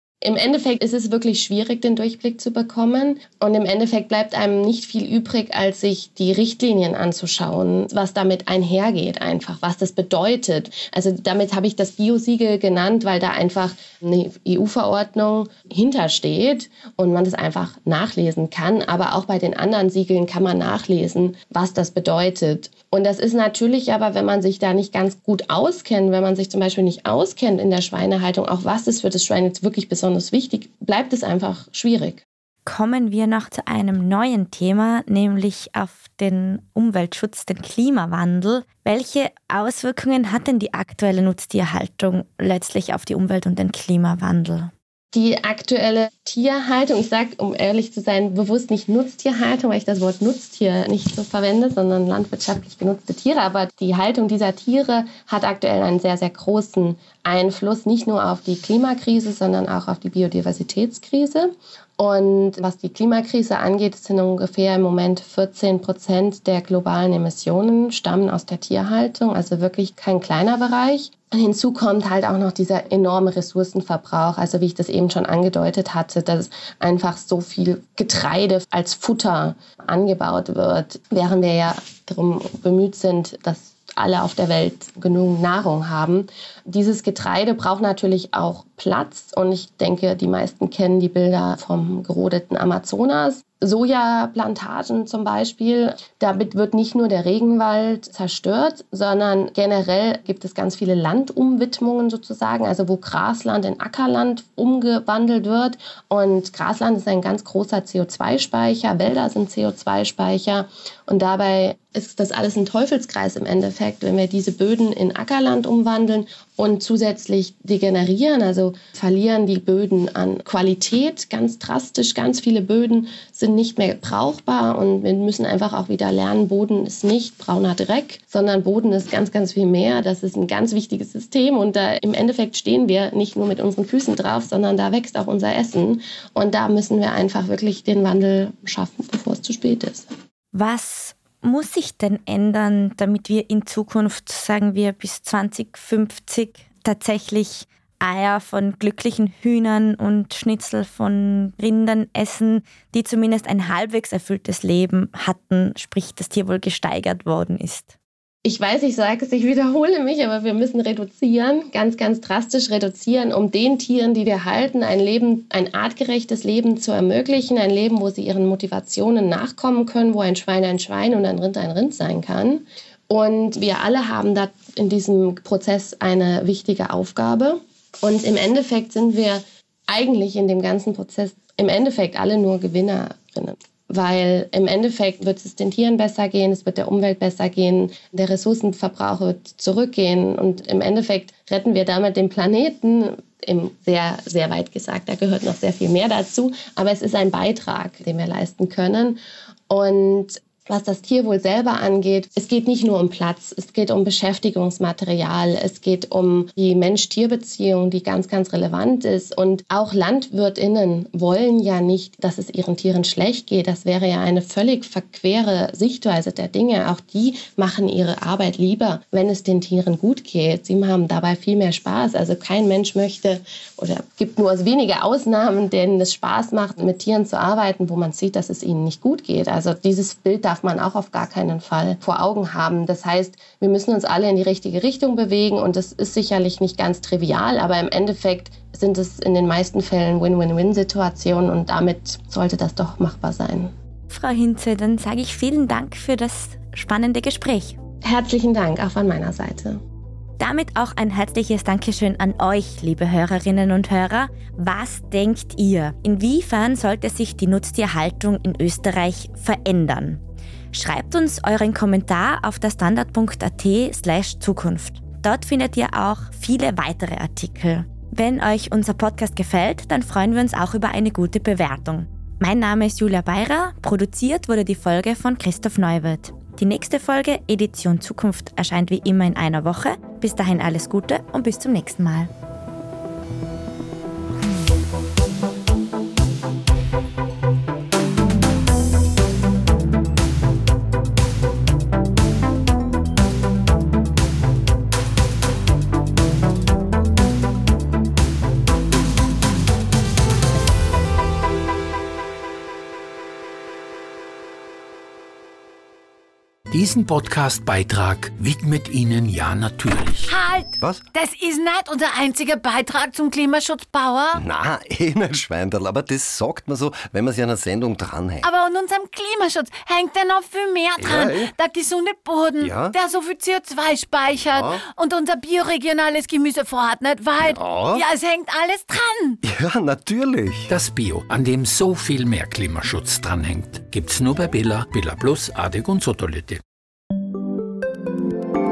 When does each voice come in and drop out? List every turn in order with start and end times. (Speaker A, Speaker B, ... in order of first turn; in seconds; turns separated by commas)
Speaker A: 0.2-32.2, Speaker B: 32.7-44.7, Speaker A: 45.1-140.1, Speaker B: 140.5-158.0, Speaker A: 158.4-243.7, Speaker B: 244.1-247.8, Speaker A: 248.0-249.8, Speaker B: 250.4-260.2, Speaker B: 260.7-282.3, Speaker C: 306.7-310.3, Speaker D: 310.3-314.4, Speaker E: 314.4-318.5, Speaker D: 318.4-329.4, Speaker E: 321.0-321.5, Speaker E: 322.6-322.9, Speaker E: 324.5-324.8, Speaker E: 327.4-328.1, Speaker E: 329.4-330.7, Speaker C: 330.7-336.6